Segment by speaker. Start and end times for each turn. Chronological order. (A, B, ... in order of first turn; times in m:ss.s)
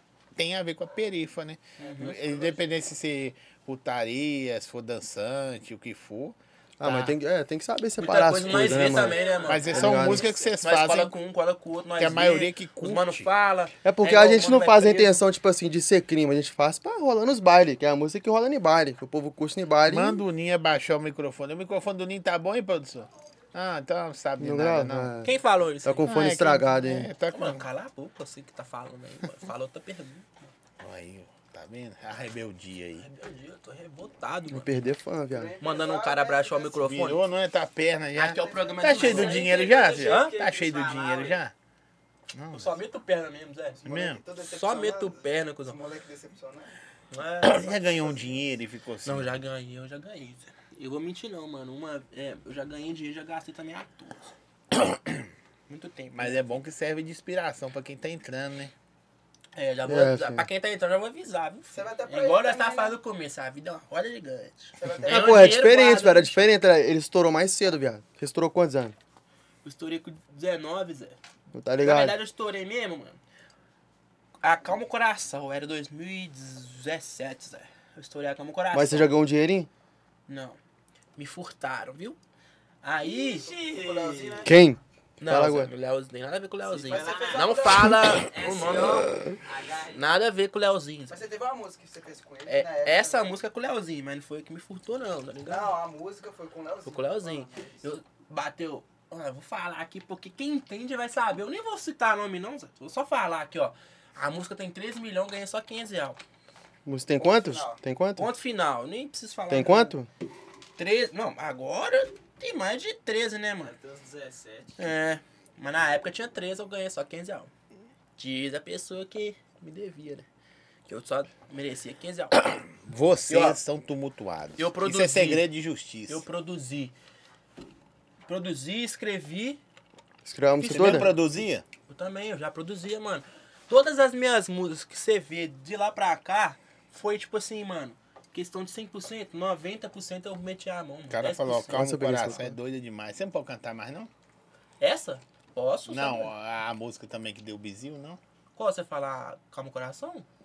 0:00.4-0:07.1 A
0:01.8-0:02.2 B
0:06.8-0:10.3 C
0:08.0-0:15.2 B
0:08.9-0:10.0 D
0:09.4-0:11.1 A
0:12.0-0:13.3 A
0:13.8-0:20.2 C
0:19.9-0:25.1 A
0:24.4-0:25.3 C
0:25.2-0:26.1 B
0:25.8-0:27.1 C
0:26.0-0:27.6 A
0:27.3-0:30.5 B
0:30.8-0:33.0 A
0:33.0-0:34.7 B
0:34.5-0:35.5 C
0:35.3-0:36.8 E
0:35.6-0:37.2 B
0:36.8-0:41.5 A
0:38.1-0:39.5 B
0:38.4-0:39.3 E
0:38.9-0:41.4 D
0:40.0-0:40.4 B
0:42.3-0:42.8 A
0:42.5-0:43.8 B
0:43.8-0:46.8 E
0:43.9-0:44.2 A
0:44.4-0:45.8 B
0:47.1-0:48.1 B
0:47.4-0:49.4 A
0:47.7-0:48.4 E
0:49.0-0:54.3 B
0:54.7-0:55.3 A
0:55.7-0:56.5 B
0:56.1-0:58.7 A
0:59.6-1:06.5 B
0:59.9-1:00.4 C
1:01.7-1:03.0 E
1:04.8-1:05.6 E
1:05.0-1:08.9 C
1:09.6-1:11.2 B
1:11.5-1:12.2 C
1:11.8-1:13.2 B
1:14.4-1:19.1 B
1:18.7-1:19.7 C
1:20.3-1:20.6 B
1:21.2-1:22.2 B
1:22.8-1:23.5 B
1:23.1-1:24.5 D
1:23.4-1:24.6 E
1:24.4-1:25.7 C
1:25.2-1:29.1 B
1:26.7-1:30.0 D
1:26.9-1:28.1 E
1:29.9-1:31.2 B
1:31.1-1:33.3 E
1:32.4-1:35.7 B
1:35.5-1:37.9 E
1:36.9-1:46.2 B
1:46.9-1:48.3 C
1:47.2-1:47.8 E
1:48.2-1:50.0 B
1:49.5-1:50.1 C
1:50.8-1:53.7 B
1:53.6-1:54.8 D
1:54.8-1:57.5 B
1:58.2-2:00.2 B
2:00.9-2:02.6 B
2:02.4-2:06.2 A
2:03.3-2:03.6 B
2:04.6-2:05.4 B
2:06.1-2:06.9 B
2:08.3-2:09.6 B
2:10.2-2:11.1 C
2:10.6-2:11.1 B
2:10.6-2:11.6 A
2:11.9-2:21.8 B
2:21.1-2:24.1 A
2:21.7-2:22.6 C
2:24.8-2:26.3 B
2:25.9-2:28.2 A
2:28.6-2:30.2 B